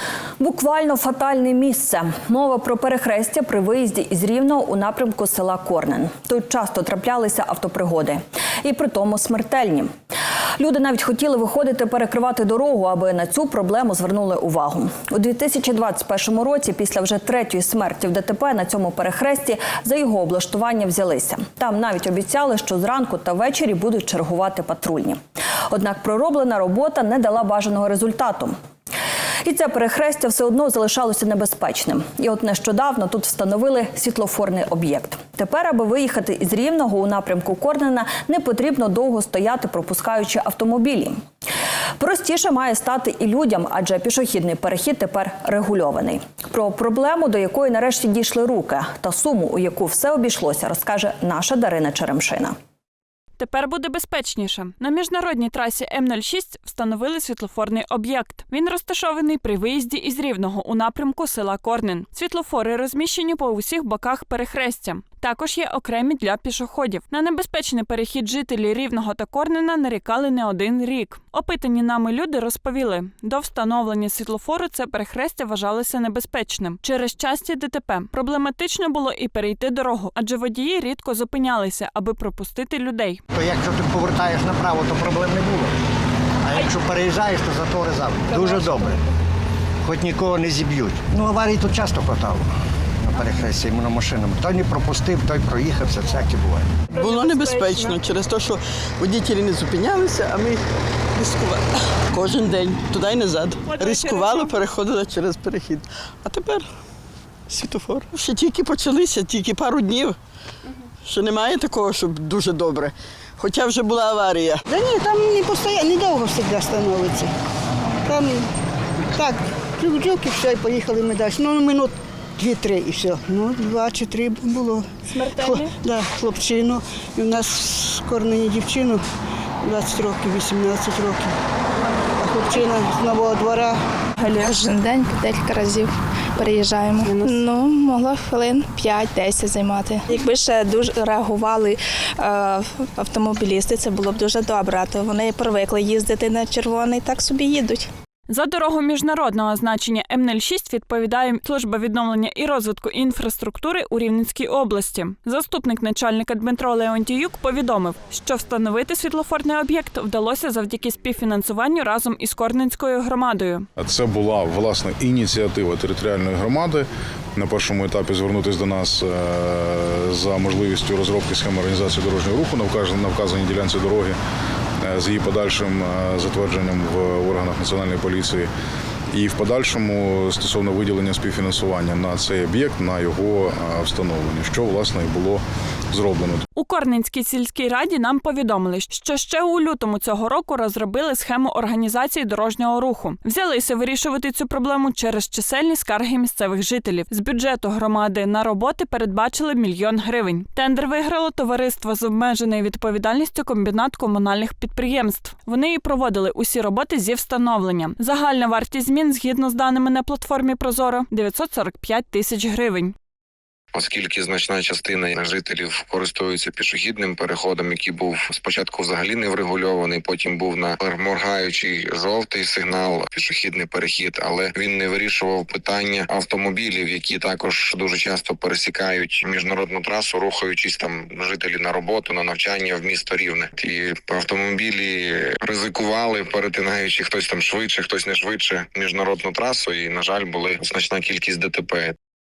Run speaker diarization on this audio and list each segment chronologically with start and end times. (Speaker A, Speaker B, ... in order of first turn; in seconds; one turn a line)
Speaker A: 0.4-9.9
Speaker A: 10.6-25.2
Speaker A: 25.7-28.5
Speaker A: 29.4-41.2
Speaker A: 42.0-52.5
Speaker B: 53.4-83.2
Speaker C: 83.3-85.7
Speaker C: 86.4-89.0
Speaker C: 89.8-92.5
Speaker C: 93.0-96.8
Speaker D: 96.9-100.6
Speaker D: 101.2-106.7
Speaker D: 107.5-110.2
Speaker D: 111.0-114.6
Speaker E: 114.7-117.3
Speaker E: 118.1-118.5
Speaker E: 119.1-129.0
Speaker E: 129.6-131.3
Speaker E: 132.2-133.8
Speaker F: 134.2-147.9
Speaker B: 148.3-163.7
Speaker G: 163.8-174.2
Speaker G: 174.8-178.5
Speaker G: 179.1-186.4
Speaker B: 186.6-212.9
Speaker H: 213.7-241.9